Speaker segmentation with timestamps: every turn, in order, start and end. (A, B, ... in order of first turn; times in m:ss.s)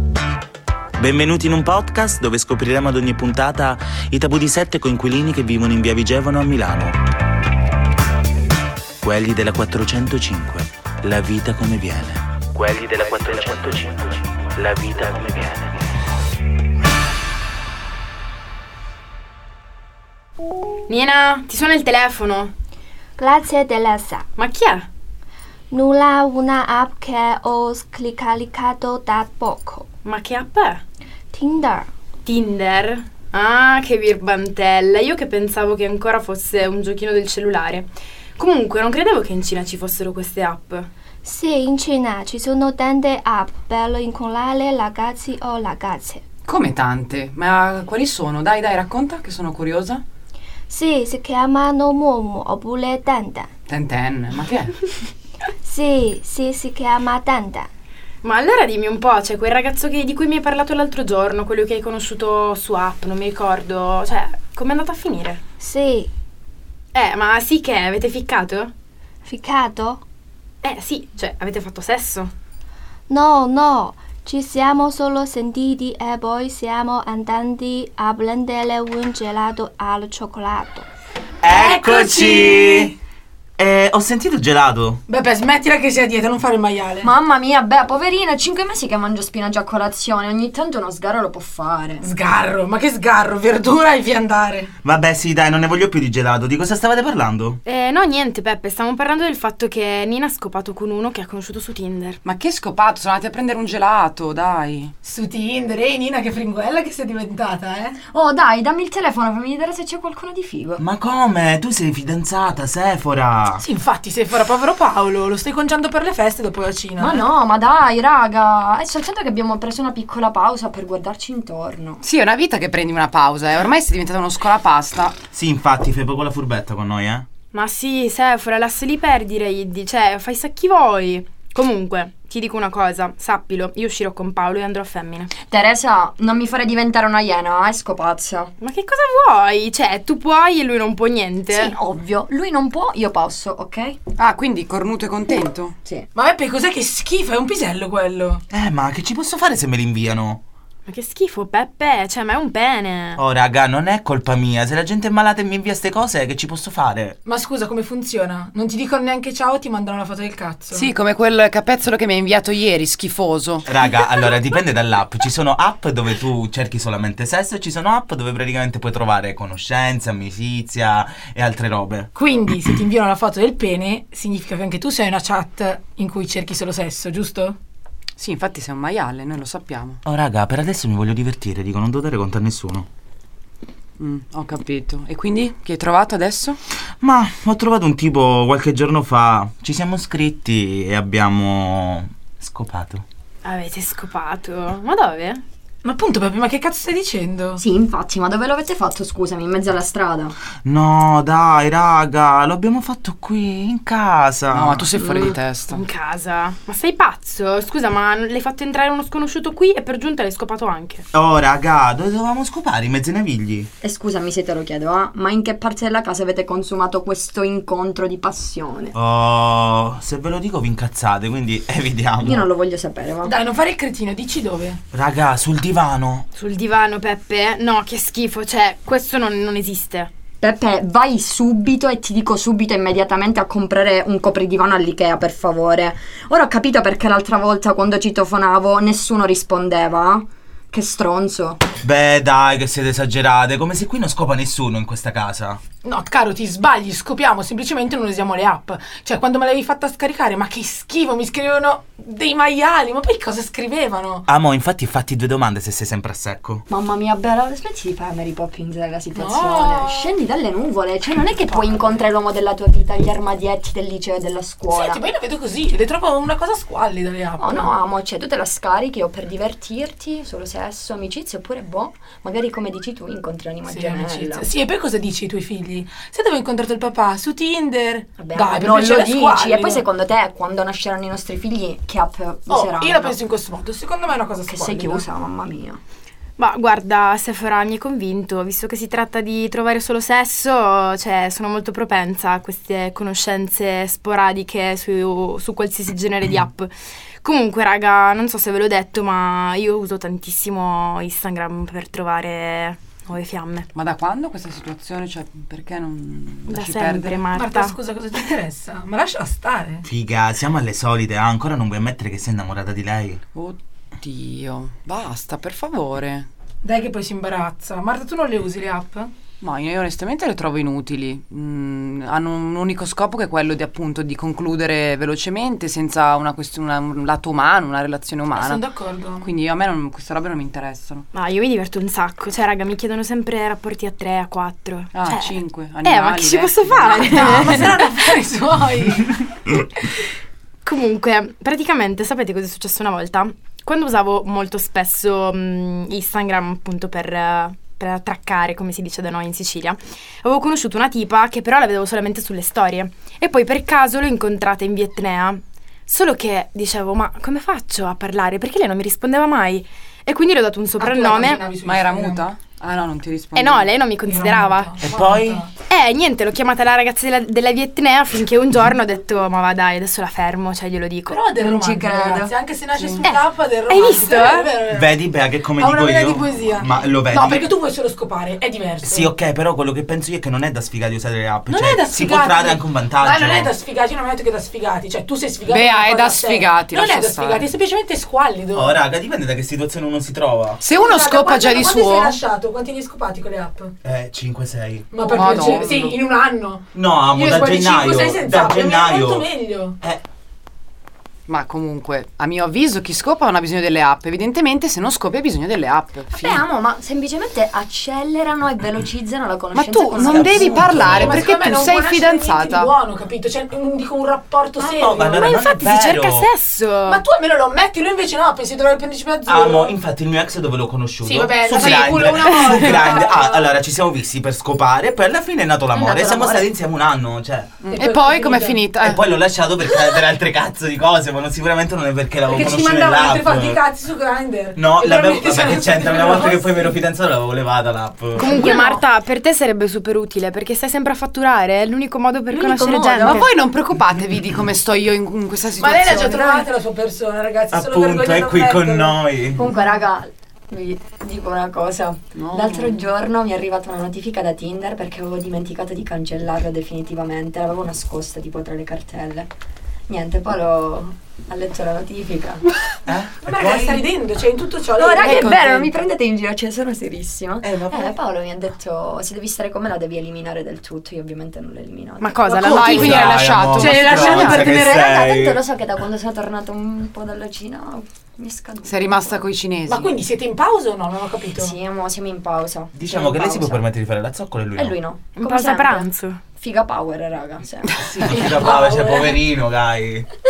0:01.0-0:07.0 A
0:09.0-0:15.7 A
0:20.9-0:22.5 B
0:23.2-0:24.2 C
0:24.4-0:24.9 B
0:25.7-0:29.8 C
0:30.0-0:30.8 B
0:31.3-0:31.9 C
0:32.2-0:40.9 B
0:41.2-0:46.1 C
0:46.4-0:50.0 D
0:50.7-0:53.3 C
0:53.7-0:54.9 D
0:55.6-0:57.7 C
0:58.2-1:05.4 B
1:05.6-1:06.1 C
1:06.9-1:08.7 B
1:09.3-1:10.0 C
1:10.6-1:12.3 B
1:13.1-1:20.8 C
1:21.4-1:22.9 A
1:21.5-1:22.9 E
1:23.6-1:25.0 A
1:25.1-1:27.1 E
1:27.0-1:32.1 F
1:32.0-1:34.7 E
1:34.8-1:37.6 A
1:37.6-1:42.2 B
1:42.2-1:44.9 D
1:45.0-1:48.0 E
1:48.1-1:50.8 F
1:50.8-1:53.6 A
1:53.6-1:57.3 E
1:57.0-2:02.0 F
2:02.0-2:05.2 D
2:05.3-2:07.3 A
2:07.5-2:15.3 B
2:15.4-2:18.5 F
2:18.6-2:21.7 B
2:21.5-2:24.0 F
2:24.2-2:25.8 D
2:26.2-2:28.4 E
2:28.5-2:30.4 A
2:30.9-2:33.2 B
2:33.2-2:37.2 A
2:37.2-2:40.9 E
2:40.7-2:43.7 D
2:43.7-2:52.1 A
2:52.2-2:57.6 E
2:58.2-3:00.0 D
3:00.0-3:02.9 A
3:04.0-3:06.6 D
3:07.0-3:13.0 A
3:13.4-3:15.4 B
3:15.8-3:17.6 E
3:17.6-3:20.4 F
3:20.6-3:24.9 A
3:24.5-3:25.8 D
3:25.0-3:25.3 F
3:25.7-3:31.0 B
3:31.1-3:33.7 A
3:33.8-3:38.9 F
3:39.0-3:42.5 A
3:42.2-3:43.3 F
3:43.2-3:44.8 E
3:44.9-3:46.2 A
3:46.4-3:50.1 B
3:50.4-4:01.6 F
4:01.8-4:05.6 A
4:05.8-4:14.2 E
4:14.3-4:16.6 A
4:16.7-4:25.0 F
4:19.2-4:20.2 E
4:24.7-4:27.7 E
4:27.4-4:34.5 F
4:33.7-4:39.8 E
4:38.2-4:43.2 F
4:42.5-4:45.0 E
4:44.5-4:45.8 F
4:46.4-5:03.7 B
5:03.8-5:07.3 D
5:06.5-5:07.8 B
5:07.3-5:09.8 E
5:09.8-5:13.2 A
5:13.3-5:16.3 D
5:16.6-5:19.1 E
5:19.4-5:28.6 D
5:28.3-5:29.3 E
5:29.2-5:31.1 D
5:31.1-5:38.2 B
5:34.9-5:37.5 D
5:37.0-5:39.6 E
5:40.6-6:01.5 B
6:00.8-6:02.3 E
6:01.6-6:03.8 D
6:03.4-6:04.8 B
6:04.0-6:05.6 E
6:04.8-6:05.4 A
6:05.6-6:11.2 B
6:11.1-6:15.0 E
6:11.4-6:12.3 F
6:12.8-6:13.0 D
6:13.0-6:14.5 B
6:14.7-6:17.5 A
6:15.6-6:19.1 E
6:18.8-6:23.5 A
6:21.5-6:28.8 E
6:25.5-6:27.5 D
6:28.5-6:30.6 A
6:30.6-6:32.2 D
6:30.7-6:33.7 E
6:33.8-6:34.9 A
6:34.9-6:39.8 E
6:35.0-6:36.0 D
6:36.7-6:39.3 A
6:41.3-6:46.4 D
6:46.1-6:50.7 F
6:49.5-6:52.7 D
6:50.0-6:51.3 A
6:50.9-6:55.3 E
6:54.6-6:56.3 A
6:55.1-6:57.0 B
6:56.9-6:59.8 E
6:59.3-7:07.5 A
7:01.0-7:03.5 E
7:02.2-7:02.8 B
7:05.7-7:06.5 F
7:07.6-7:09.0 D
7:07.7-7:08.6 E
7:08.8-7:13.6 A
7:12.3-7:16.8 E
7:14.6-7:18.6 A
7:18.2-7:23.2 B
7:18.2-7:18.8 E
7:22.4-7:23.3 F
7:23.0-7:26.5 D
7:25.6-7:29.1 E
7:27.5-7:29.4 A
7:29.3-7:39.3 F
7:32.2-7:32.9 D
7:39.9-7:42.4 F
7:42.8-7:43.8 A
7:43.2-7:45.8 E
7:44.8-7:52.2 F
7:45.1-7:45.3 D
7:47.4-7:48.0 A
7:52.0-7:53.3 B
7:52.2-7:54.8 E
7:52.5-7:54.5 D
7:52.7-7:55.4 A
7:54.1-7:59.3 F
7:58.6-8:00.0 D
7:59.7-8:01.6 E
8:01.4-8:03.6 F
8:02.7-8:04.8 A
8:04.6-8:07.8 F
8:05.2-8:06.2 B
8:07.8-8:10.1 A
8:08.1-8:09.2 E